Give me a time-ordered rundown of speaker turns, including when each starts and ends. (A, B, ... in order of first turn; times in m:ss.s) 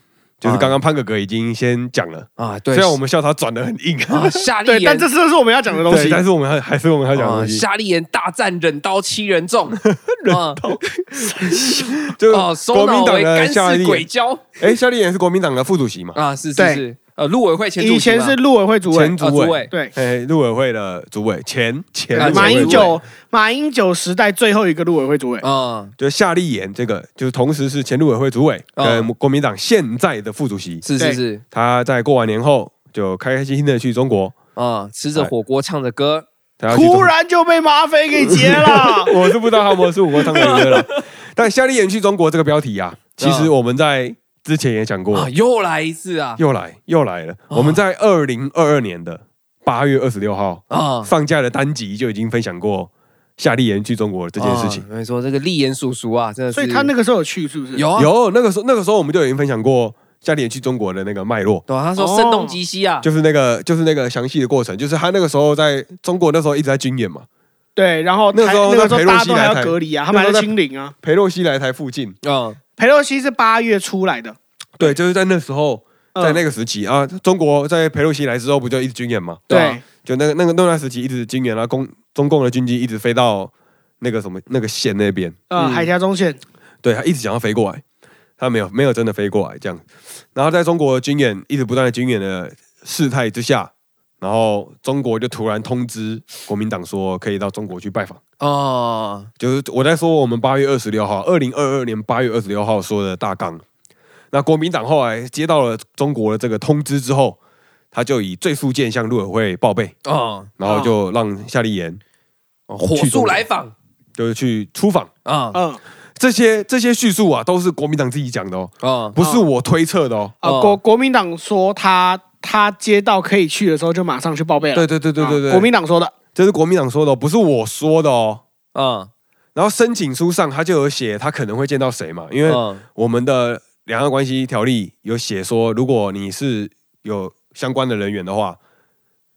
0:00.4-0:04.4 A
0:00.4-0:00.8 B
0:02.4-0:03.0 B
0:04.1-0:05.1 B
0:04.6-0:06.2 C
0:05.8-0:07.6 A
0:07.2-0:10.8 B
0:09.8-0:14.0 A
0:12.3-0:14.7 B
0:14.6-0:16.2 A
0:16.2-0:18.4 B
0:16.6-0:16.8 C
0:17.8-0:19.2 C
0:18.9-0:23.0 A
0:19.2-0:19.7 B
0:22.2-0:25.4 C
0:22.2-0:22.9 B
0:25.4-0:26.0 B
0:26.0-0:30.8 A
0:28.8-0:29.1 B
0:30.8-0:31.4 B
0:31.5-0:34.4 A
0:34.6-0:36.3 B
0:36.6-0:37.1 A
0:36.7-0:39.1 C
0:38.2-0:45.3 A
0:40.4-0:41.0 B
0:43.2-0:43.5 B
0:45.1-0:46.4 B
0:46.4-0:54.8 A
0:47.5-0:47.8 B
0:50.7-0:51.1 B
0:54.4-0:56.9 B
0:56.5-0:57.8 C
0:57.8-0:58.1 B
0:58.0-1:01.6 A
1:01.7-1:03.1 B
1:02.0-1:02.6 C
1:03.0-1:07.3 A
1:07.8-1:11.0 C
1:08.3-1:10.5 A
1:11.0-1:12.2 A
1:12.2-1:12.6 B
1:12.8-1:15.0 C
1:14.8-1:19.4 A
1:16.2-1:16.4 C
1:19.5-1:19.8 B
1:19.5-1:19.8 C
1:20.0-1:25.4 A
1:25.5-1:26.4 C
1:25.6-1:25.9 B
1:26.8-1:27.8 A
1:28.4-1:29.8 A
1:30.4-1:38.2 A
1:38.4-1:39.3 B
1:39.4-1:43.6 A
1:44.3-1:47.4 A
1:47.9-1:50.0 A
1:50.0-1:50.5 B
1:50.6-1:52.0 A
1:50.6-1:50.9 C
1:52.7-1:53.7 B
1:52.9-1:53.4 A
1:54.2-1:55.1 A
1:55.2-1:55.6 B
1:55.5-1:55.8 C
1:56.2-2:00.4 A
1:58.8-1:59.2 B
1:59.2-1:59.4 C
2:00.4-2:06.1 C
2:00.4-2:00.8 B
2:04.7-2:05.7 A
2:06.3-2:08.4 A
2:08.7-2:09.1 B
2:09.6-2:18.6 A
2:12.5-2:12.8 B